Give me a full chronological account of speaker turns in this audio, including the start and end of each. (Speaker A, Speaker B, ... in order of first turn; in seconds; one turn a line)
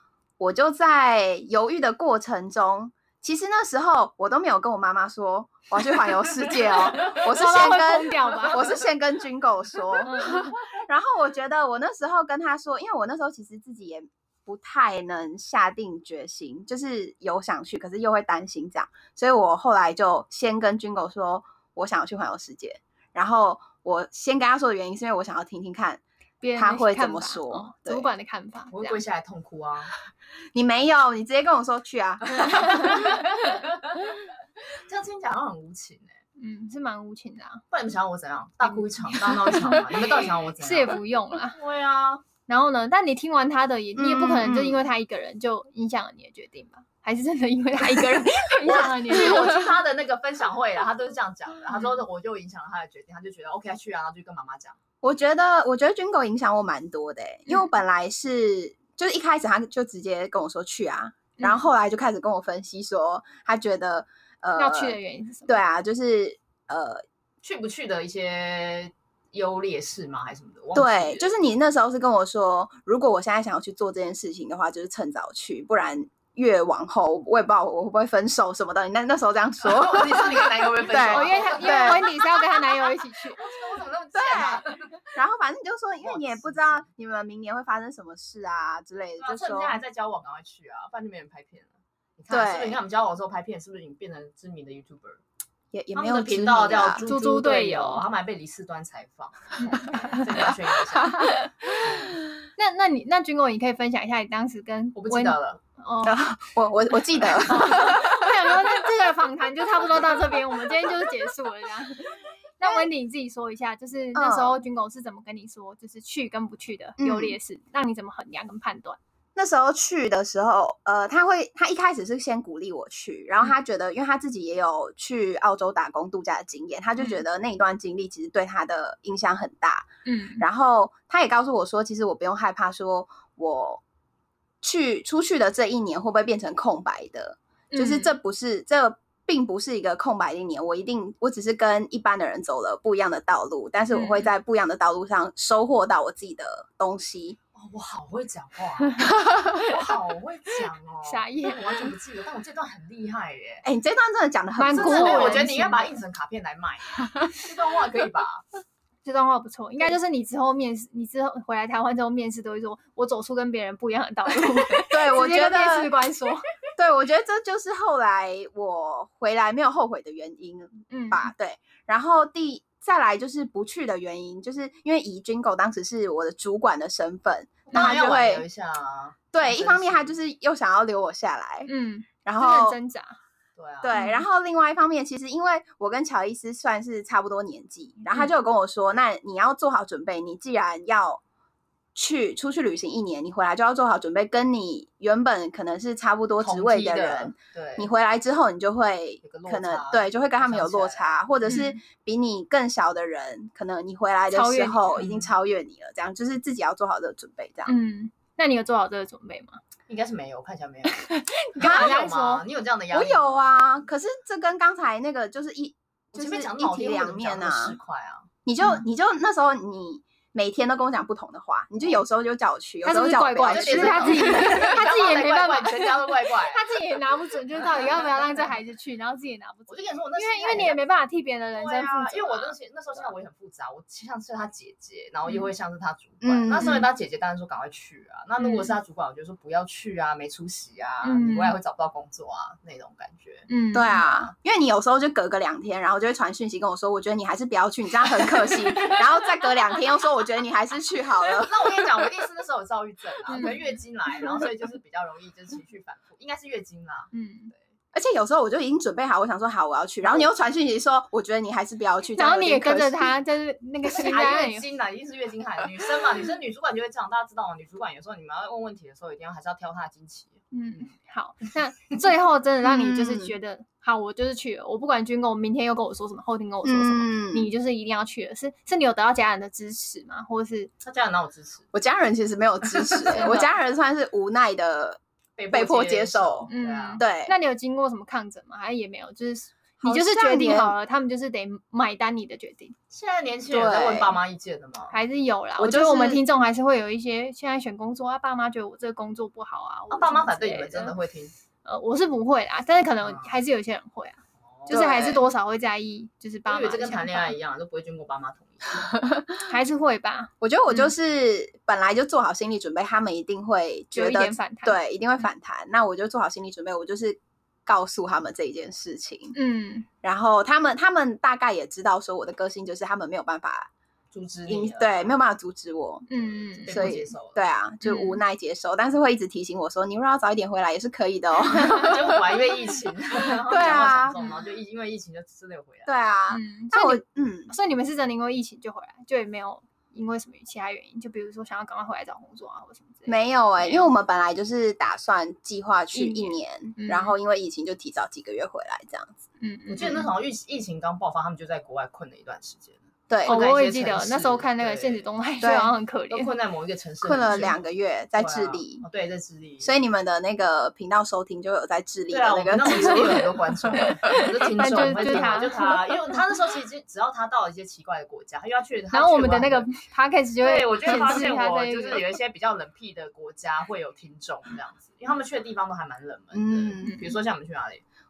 Speaker A: 0.4-26.0
Speaker B: 7.0-8.8
Speaker B: 10.0-10.5
Speaker B: 26.4-29.0
Speaker A: 26.5-28.1
Speaker C: 28.7-29.9
Speaker A: 30.5-33.2
Speaker C: 32.8-34.0
Speaker C: 34.8-36.1
Speaker B: 36.4-37.6
Speaker C: 37.7-42.2
Speaker B: 38.6-41.6
Speaker B: 42.5-49.7
Speaker A: 44.0-44.8
Speaker C: 48.6-54.8
Speaker A: 55.0-67.0
Speaker B: 61.4-61.7
Speaker B: 64.5-65.6
Speaker C: 67.4-71.3
Speaker A: 70.7-82.1
Speaker C: 79.6-85.1
Speaker B: 80.9-83.4
Speaker A: 84.1-84.6
Speaker A: 85.1-89.8
Speaker C: 86.0-86.9
Speaker C: 89.2-95.2
Speaker A: 92.3-92.8
Speaker A: 95.7-97.0
Speaker C: 95.9-102.2
Speaker B: 97.0-98.0
Speaker B: 99.6-100.2
Speaker B: 101.2-101.5
Speaker B: 102.6-106.2
Speaker C: 105.0-105.6
Speaker A: 106.0-108.3
Speaker B: 107.5-119.0
Speaker A: 114.1-114.6
Speaker A: 117.0-117.3
Speaker A: 119.3-129.9
Speaker B: 127.0-127.2
Speaker B: 130.1-130.4
Speaker A: 130.4-133.8
Speaker A: 134.6-147.4
Speaker B: 137.7-138.1
Speaker B: 143.9-144.3
Speaker C: 147.5-153.6
Speaker B: 151.0-151.7
Speaker A: 153.6-155.4
Speaker B: 154.6-156.0
Speaker C: 154.7-158.4
Speaker B: 159.0-166.4
Speaker A: 164.9-165.9
Speaker A: 166.8-178.4
Speaker B: 170.9-171.3
Speaker C: 177.7-180.1
Speaker A: 179.3-181.7
Speaker B: 181.7-183.2
Speaker A: 182.2-182.8
Speaker C: 183.6-184.0
Speaker A: 183.8-191.2
Speaker B: 183.9-184.2
Speaker A: 191.9-207.7
Speaker C: 196.4-197.9
Speaker C: 199.2-201.6
Speaker B: 201.4-201.8
Speaker B: 204.3-205.0
Speaker C: 205.0-205.3
Speaker B: 207.7-209.6
Speaker C: 209.9-211.0
Speaker B: 210.9-212.4
Speaker C: 211.6-213.5
Speaker A: 211.6-212.0
Speaker A: 212.9-217.8
Speaker C: 216.1-218.3
Speaker A: 218.4-224.6
Speaker B: 222.8-233.1
Speaker C: 223.4-226.6
Speaker C: 229.7-230.8
Speaker C: 231.5-244.3
Speaker A: 236.2-236.8
Speaker B: 238.4-238.8
Speaker B: 241.0-241.6
Speaker B: 243.5-244.0
Speaker A: 243.7-251.8
Speaker C: 248.6-249.1
Speaker C: 251.2-257.6
Speaker B: 253.3-253.6
Speaker B: 257.1-257.5
Speaker A: 257.9-263.1
Speaker B: 262.1-264.6
Speaker C: 263.9-270.4
Speaker B: 270.5-280.7
Speaker A: 272.6-273.3
Speaker A: 276.6-277.5
Speaker C: 280.8-281.7
Speaker A: 281.7-285.0
Speaker C: 282.9-283.5
Speaker C: 285.4-287.0
Speaker A: 285.5-287.3
Speaker B: 286.5-292.7
Speaker A: 289.8-290.7
Speaker C: 292.9-295.0
Speaker A: 293.5-294.1
Speaker B: 294.9-300.9
Speaker A: 295.6-296.2
Speaker C: 299.9-301.3
Speaker B: 301.6-307.3
Speaker C: 303.0-303.3
Speaker C: 304.6-305.1
Speaker A: 304.7-305.2
Speaker C: 306.4-308.9
Speaker A: 309.0-309.4
Speaker B: 309.4-310.9
Speaker A: 310.4-319.3
Speaker B: 313.9-314.8
Speaker B: 319.3-319.9
Speaker A: 320.0-323.7
Speaker C: 324.1-325.1
Speaker A: 324.5-326.1
Speaker B: 326.1-326.9
Speaker C: 326.6-327.4
Speaker A: 326.7-332.2
Speaker B: 327.8-328.2
Speaker C: 331.6-336.0
Speaker A: 333.5-334.1
Speaker A: 335.9-337.5
Speaker B: 336.3-343.3
Speaker A: 343.1-349.1
Speaker C: 343.6-343.9
Speaker B: 345.9-347.1
Speaker B: 349.4-350.1
Speaker C: 349.7-355.0
Speaker A: 353.1-353.4
Speaker B: 353.2-356.3
Speaker A: 355.4-355.7
Speaker C: 356.1-357.6
Speaker A: 357.0-358.8
Speaker C: 358.1-359.7
Speaker A: 359.6-363.3
Speaker C: 362.1-369.7
Speaker B: 362.7-363.1
Speaker B: 364.0-365.8
Speaker B: 368.9-372.1
Speaker C: 370.4-377.8
Speaker A: 376.3-376.9
Speaker B: 376.8-377.1